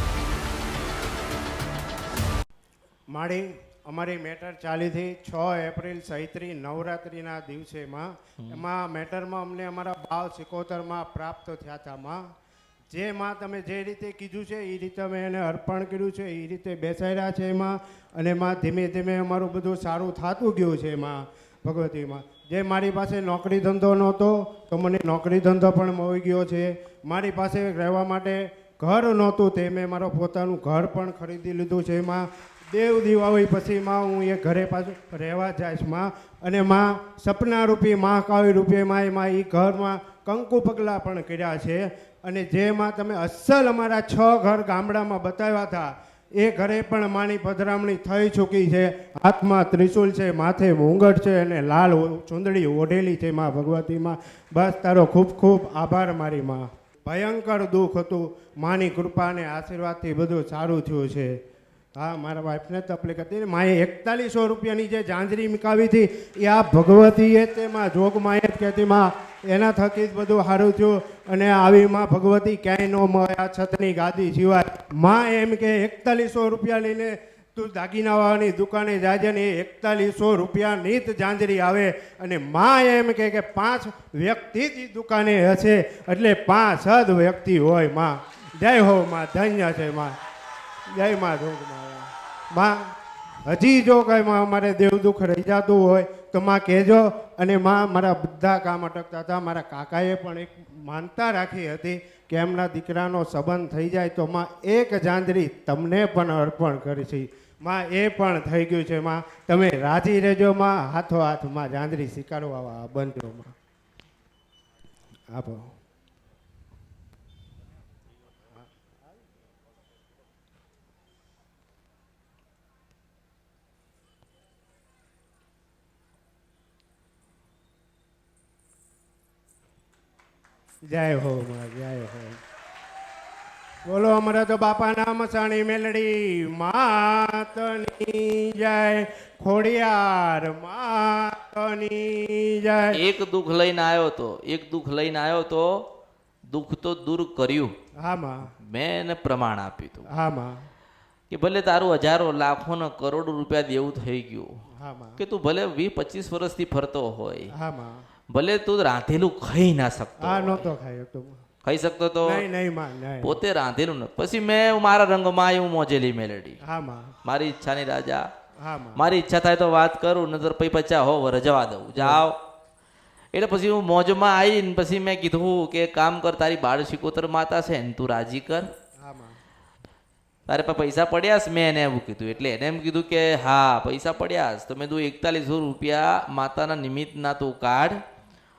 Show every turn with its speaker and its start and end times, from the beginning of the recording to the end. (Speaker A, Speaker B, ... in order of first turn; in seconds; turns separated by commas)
Speaker A: 3.1-12.2, Speaker A: 12.9-61.4, Speaker A: 62.0-90.2, Speaker A: 90.9-92.9, Speaker A: 93.5-113.5, Speaker A: 115.3-115.7, Speaker A: 130.9-132.4, Speaker A: 133.9-143.0, Speaker B: 142.9-145.9, Speaker B: 146.5-147.7, Speaker A: 148.0-148.5, Speaker B: 148.6-150.1, Speaker A: 150.1-150.7, Speaker B: 151.3-154.5, Speaker A: 154.8-155.2, Speaker B: 155.2-157.5, Speaker A: 157.5-158.0, Speaker B: 158.3-160.7, Speaker A: 160.2-161.4, Speaker B: 161.6-162.4, Speaker A: 162.2-163.4, Speaker B: 163.2-166.6, Speaker A: 166.6-167.2, Speaker B: 167.2-168.3, Speaker A: 168.6-169.0, Speaker B: 169.0-172.4, Speaker A: 172.0-172.2, Speaker B: 173.3-178.7, Speaker A: 179.0-179.4, Speaker B: 180.5-188.0